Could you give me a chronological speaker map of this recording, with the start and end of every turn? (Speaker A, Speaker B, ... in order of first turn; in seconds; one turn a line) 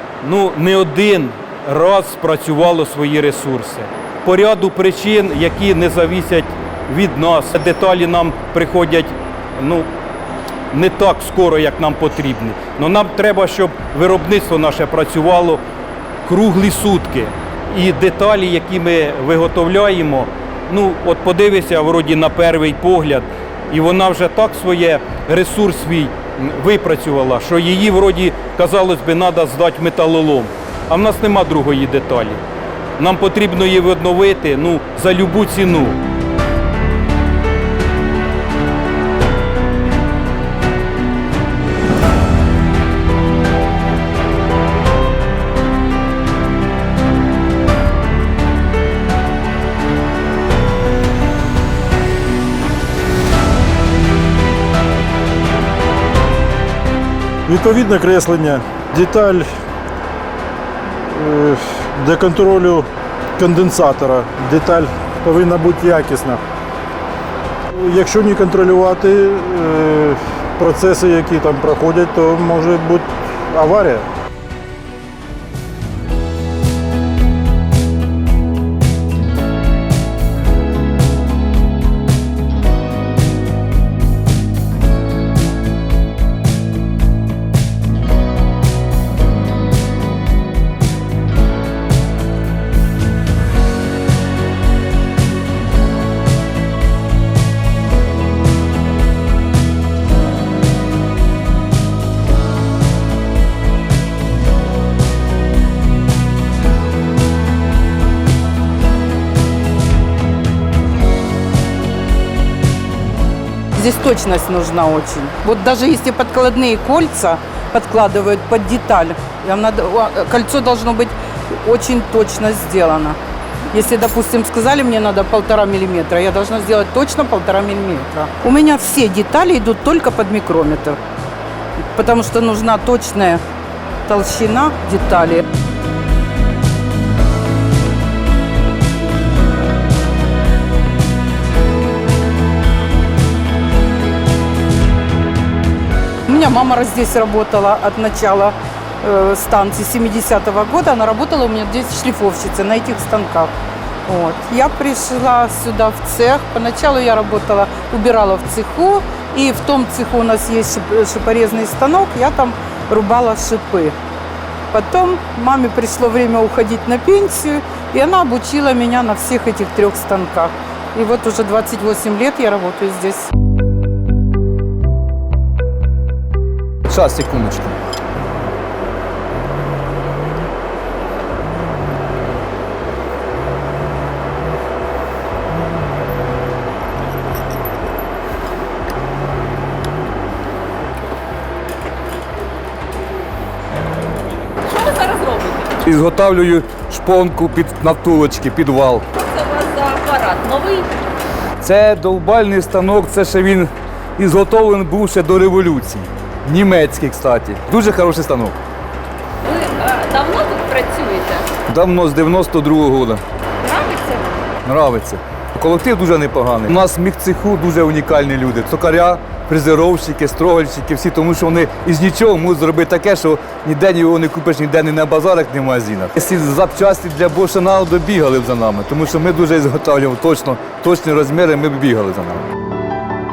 Speaker A: 0.2-9.9
Speaker A: 10.7-15.6
Speaker A: 16.2-32.4
Speaker A: 33.0-36.0
Speaker B: 57.5-59.5
Speaker B: 61.1-62.9
Speaker B: 63.4-66.4
Speaker B: 67.7-74.1
Speaker C: 113.7-123.2
Speaker C: 123.7-131.0
Speaker C: 131.9-133.4
Speaker C: 134.1-135.4
Speaker C: 146.2-153.5
Speaker C: 154.1-163.9
Speaker C: 164.7-173.3
Speaker D: 176.9-177.8
Speaker E: 194.8-195.7
Speaker D: 195.8-199.1
Speaker E: 199.2-200.9
Speaker D: 201.6-208.6
Speaker E: 209.5-211.5
Speaker D: 211.7-213.2
Speaker E: 213.7-214.4
Speaker D: 214.7-232.5